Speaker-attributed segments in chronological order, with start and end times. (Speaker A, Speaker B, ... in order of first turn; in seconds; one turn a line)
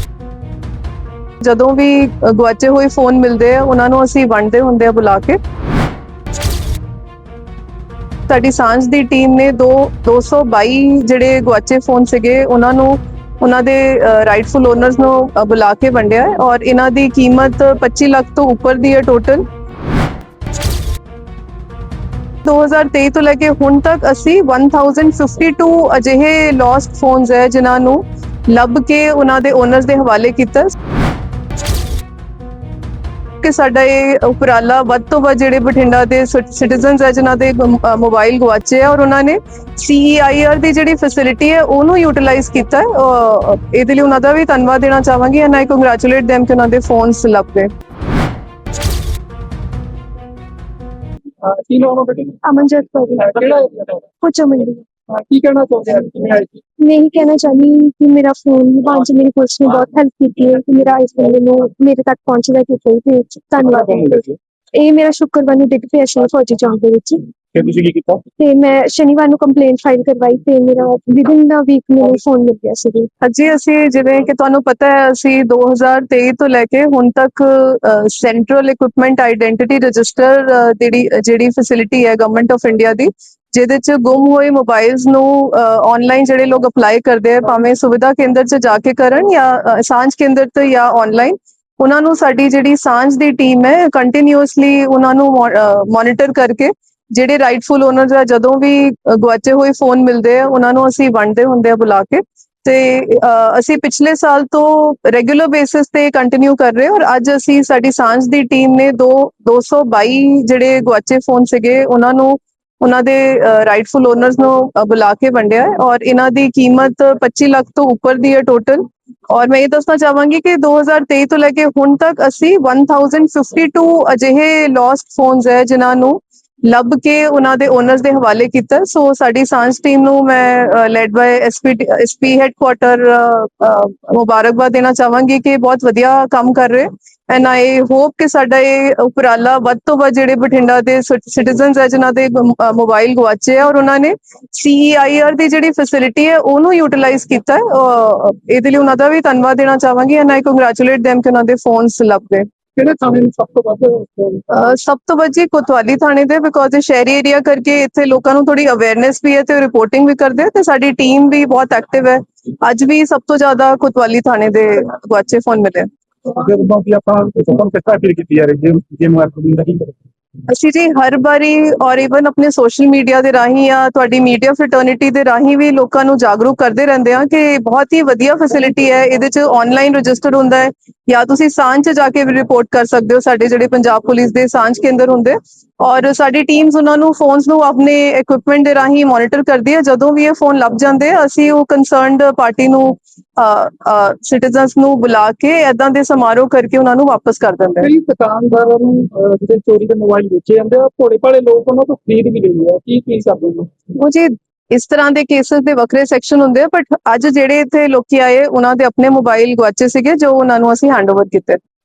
Speaker A: 1.4-5.4
Speaker A: 8.3-19.4
Speaker A: 22.4-30.7
Speaker A: 33.4-47.7
Speaker B: 51.4-52.4
Speaker C: 52.4-53.4
Speaker B: 53.2-54.0
Speaker C: 54.2-54.8
Speaker B: 55.1-56.6
Speaker C: 56.8-67.3
Speaker B: 63.6-64.2
Speaker B: 67.5-68.2
Speaker C: 68.4-73.1
Speaker A: 73.2-152.5
Speaker B: 152.7-154.4
Speaker A: 154.5-165.9
Speaker B: 166.2-169.9
Speaker A: 170.5-197.9
Speaker B: 197.8-203.7
Speaker A: 204.0-211.6